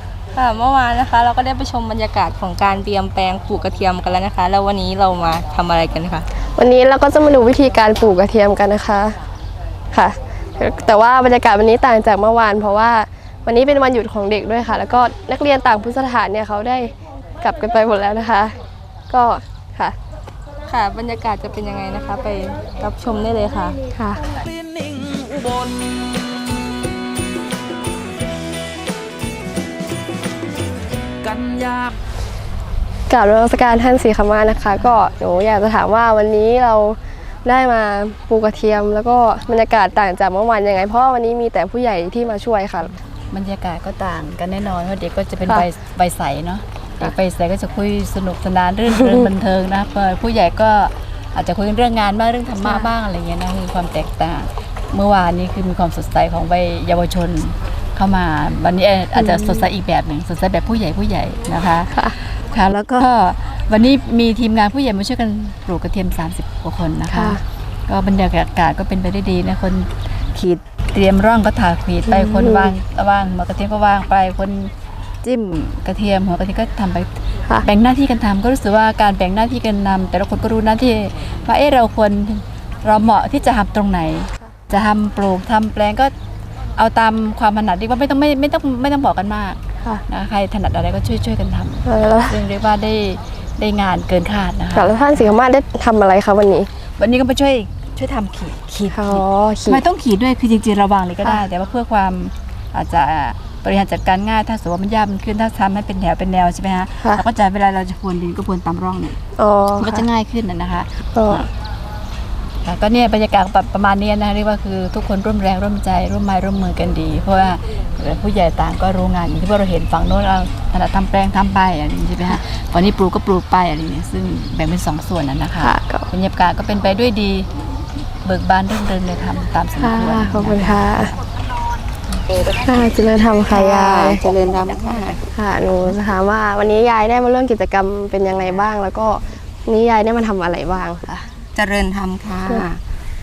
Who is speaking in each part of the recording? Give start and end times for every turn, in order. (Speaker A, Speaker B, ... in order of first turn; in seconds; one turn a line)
Speaker A: 0.3-6.3
Speaker B: 6.6-9.2
Speaker B: 9.9-18.5
Speaker B: 19.1-20.0
Speaker A: 20.7-23.8
Speaker B: 23.9-24.2
Speaker C: 24.4-26.1
Speaker C: 31.2-31.9
Speaker B: 33.1-42.9
Speaker D: 43.3-77.1
Speaker B: 48.9-49.3
Speaker B: 59.2-59.7
Speaker B: 67.1-67.4
Speaker B: 72.1-72.7
Speaker D: 77.6-86.1
Speaker D: 86.8-95.3
Speaker B: 91.8-92.4
Speaker B: 94.8-96.7
Speaker D: 97.0-109.2
Speaker B: 98.9-99.8
Speaker B: 109.4-110.1
Speaker D: 109.8-111.5
Speaker B: 111.1-111.5
Speaker D: 112.6-127.5
Speaker B: 125.6-126.1
Speaker D: 128.2-131.1
Speaker B: 129.8-131.1
Speaker B: 132.5-134.3
Speaker E: 133.5-135.2
Speaker B: 135.3-141.3
Speaker E: 141.5-142.8